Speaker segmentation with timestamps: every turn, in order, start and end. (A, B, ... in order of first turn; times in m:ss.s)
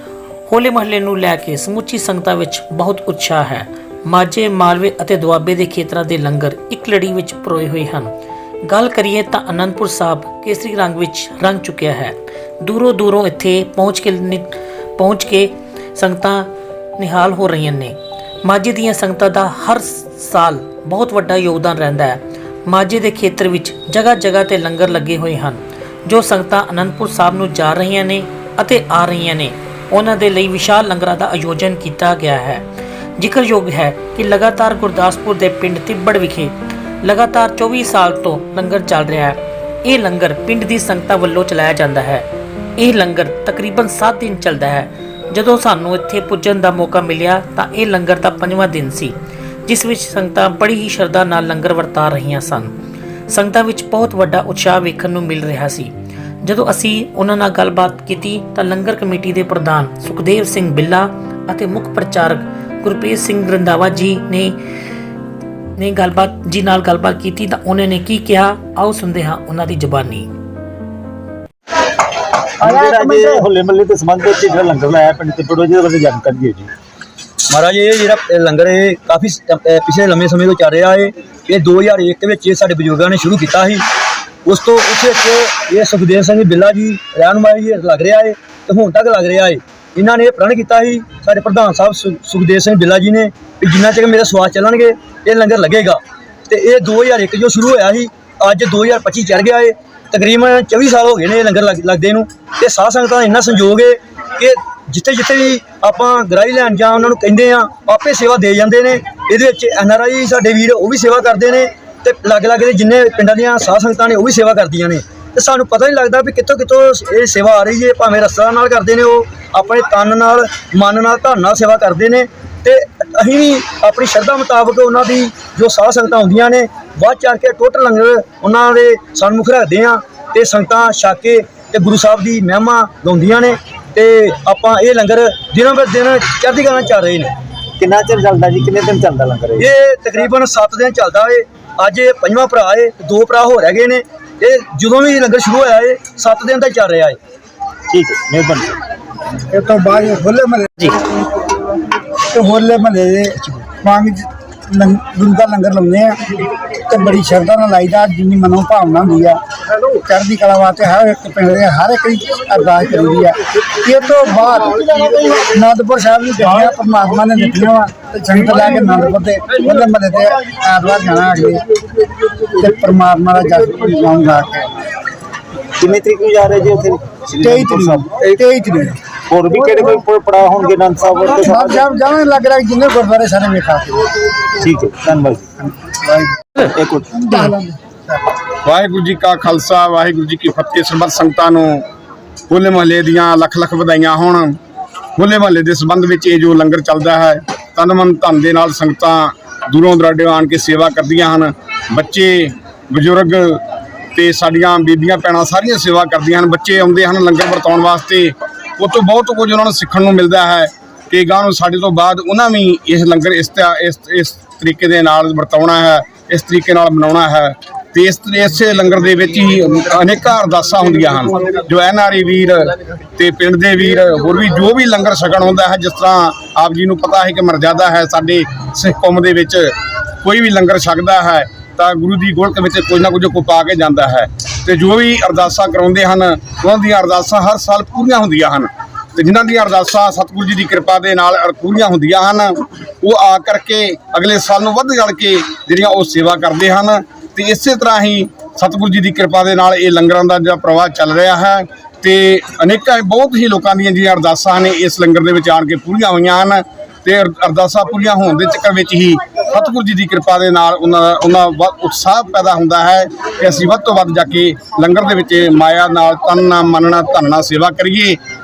0:00.5-0:08.1 A
0:08.6-0:32.6 A
0:33.2-0:42.2 A
0:42.8-0:49.2 A
0:49.7-0:52.7 A
0:53.3-0:55.9 A
0:56.4-1:04.6 A
1:05.8-1:10.3 A
1:12.6-1:13.5 B
1:12.6-1:16.7 C
1:17.5-1:23.8 D
1:24.4-2:17.3 D
2:17.8-2:19.7 C
2:19.6-2:27.2 D
2:27.9-2:28.8 C
2:29.5-2:30.7 B
2:32.3-2:36.2 B
2:36.9-2:39.4 B
2:39.9-2:51.6 B
2:52.4-2:54.7 B
2:55.8-2:58.1 C
2:57.4-2:59.0 B
2:59.3-3:01.8 C
3:01.5-3:04.1 B
3:04.6-3:05.5 C
3:05.7-3:06.6 B
3:06.6-3:07.1 C
3:07.1-3:08.2 B
3:08.6-3:11.8 E
3:12.5-3:14.6 E
3:15.2-3:23.6 E
3:24.2-4:28.2 E